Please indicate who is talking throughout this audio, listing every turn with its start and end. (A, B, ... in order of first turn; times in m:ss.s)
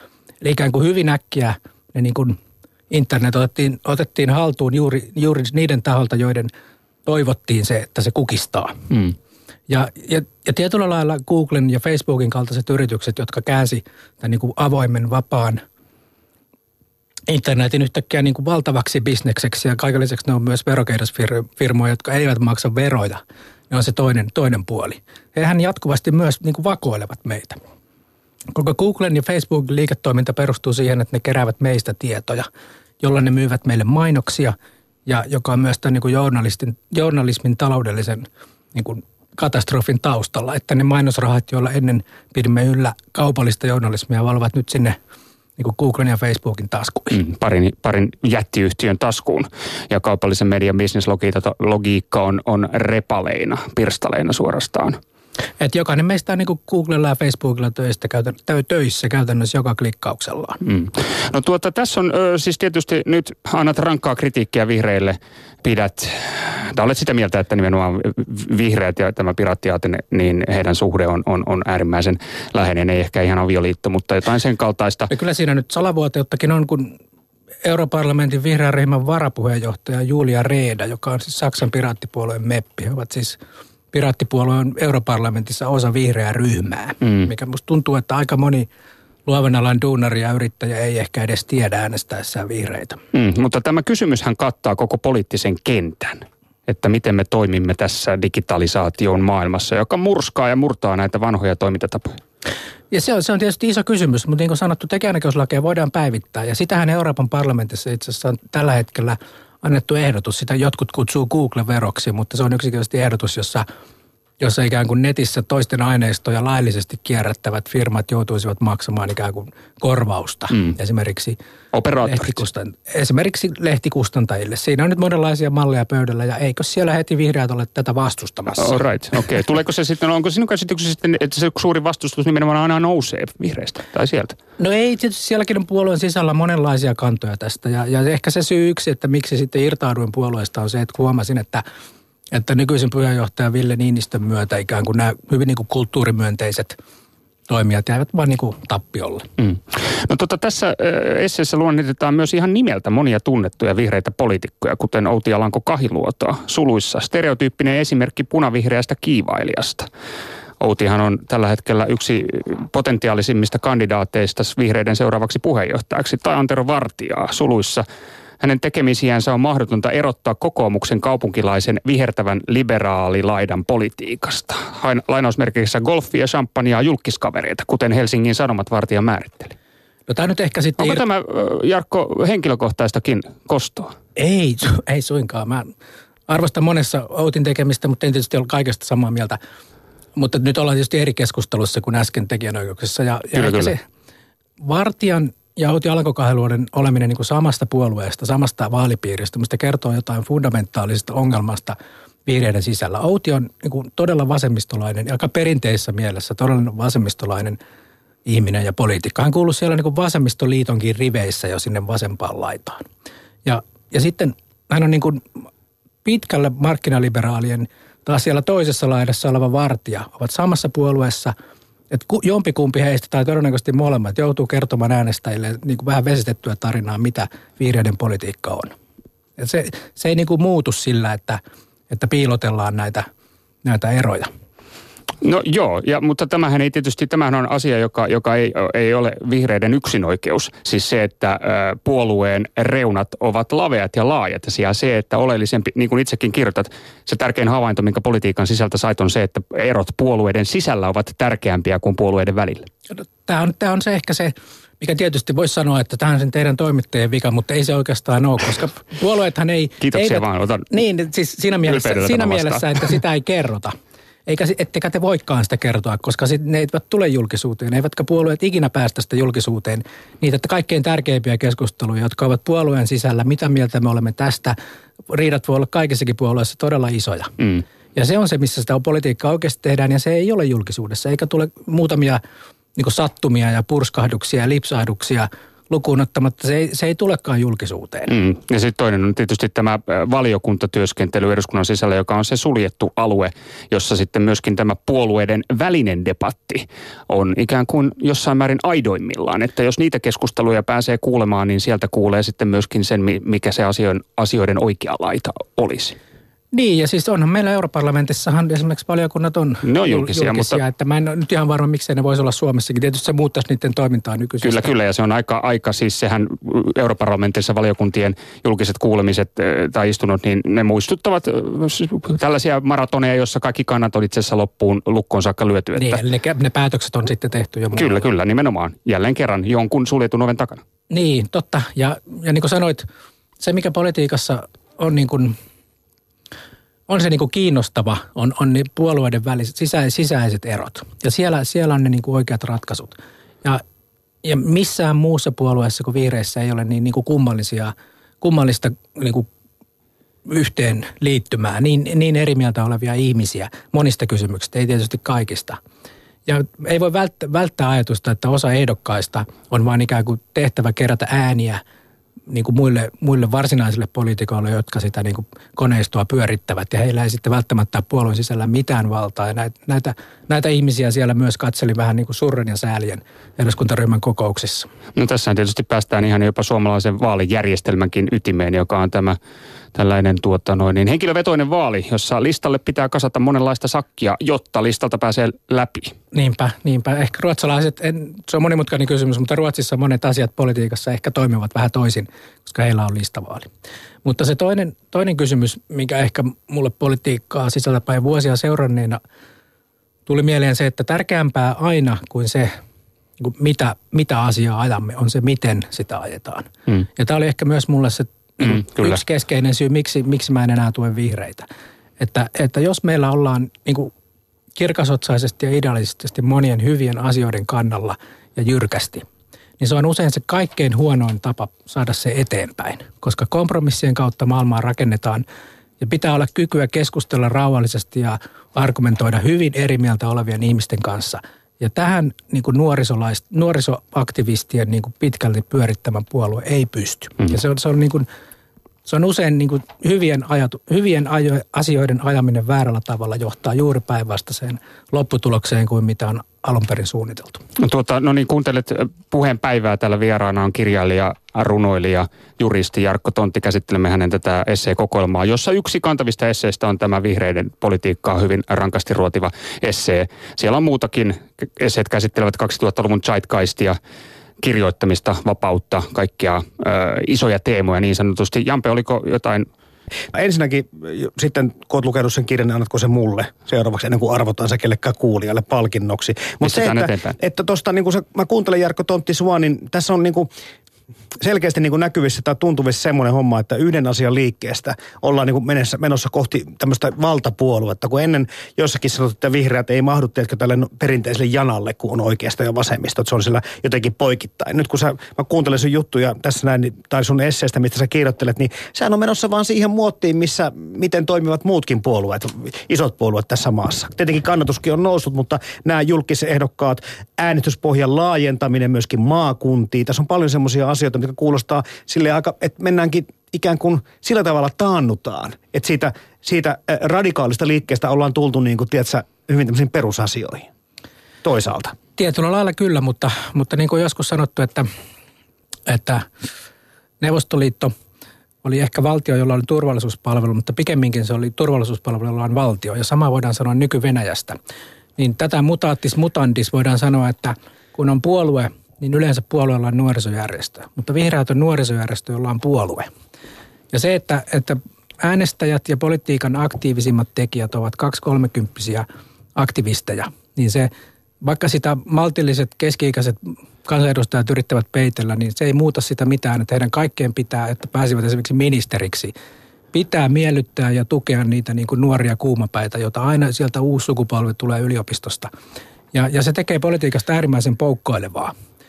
0:00.4-0:02.4 A
0:02.9-0:06.5 A
0:07.0-0:08.8 A
0:09.7-0:15.6 A
0:17.3-0:27.6 A
0:28.5-0:32.4 A
0:33.0-0:45.0 A
0:45.6-0:47.2 A
0:47.1-0:55.0 B
0:55.6-1:00.6 A
1:00.6-1:15.1 B
1:15.1-1:17.0 A
1:17.6-1:23.4 A
1:23.9-1:28.7 A
1:29.2-1:33.0 A
1:33.1-1:42.2 B
1:42.9-1:53.6 A
1:54.4-2:01.4 A
2:01.7-2:02.4 B
2:02.0-2:08.8 A
2:08.6-2:14.4 B
2:14.6-2:21.6 A
2:22.3-2:26.8 A
2:27.5-2:29.3 A
2:29.4-2:39.9 B
2:40.6-2:47.8 B
2:48.4-2:59.5 B
3:00.1-3:01.0 A
3:00.8-3:03.9 B
3:04.2-3:05.7 A
3:06.3-3:09.4 A
3:10.2-3:13.8 A
3:13.3-3:13.7 B
3:14.6-3:27.6 A
3:28.2-3:32.8 A
3:33.4-3:35.3 A
3:36.0-3:41.3 A
3:41.9-3:48.7 A
3:49.4-3:53.1 A
3:53.6-3:54.3 A
3:55.2-4:12.7 B
4:12.9-4:23.7 A
4:19.8-4:20.7 B
4:21.6-4:22.6 B
4:24.2-4:34.6 A
4:35.1-4:37.3 A
4:37.9-4:42.2 A
4:42.8-4:48.1 A
4:48.1-5:06.0 B
5:06.5-5:14.6 A
5:09.6-5:10.6 B
5:14.4-5:26.0 B
5:25.8-5:28.0 A
5:27.7-5:30.6 B
5:30.9-5:32.8 A
5:33.4-5:35.4 A
5:36.9-5:43.6 A
5:44.2-5:49.3 A
5:50.2-5:55.6 A
5:56.2-6:01.6 A
6:02.3-6:14.7 A
6:15.0-6:19.2 B
6:19.7-6:25.9 B
6:26.1-6:33.5 A
6:34.0-6:39.0 A
6:40.1-6:42.5 A
6:43.2-6:51.5 A
6:48.4-6:49.0 B
6:52.0-6:53.9 A
6:54.5-6:59.0 A
6:59.6-7:05.2 A
7:05.8-7:18.1 A
7:18.8-7:27.4 A
7:27.6-7:43.8 B
7:44.4-7:49.5 B
7:50.1-8:00.3 C
7:56.4-7:57.2 B
8:01.2-8:40.5 C
8:41.2-8:41.8 C
8:42.0-8:44.7 A
8:45.6-8:46.1 A
8:47.0-8:47.7 A
8:48.4-8:54.4 A
8:55.0-9:02.9 A
9:03.7-9:19.1 A
9:19.7-9:25.3 A
9:25.9-9:28.3 A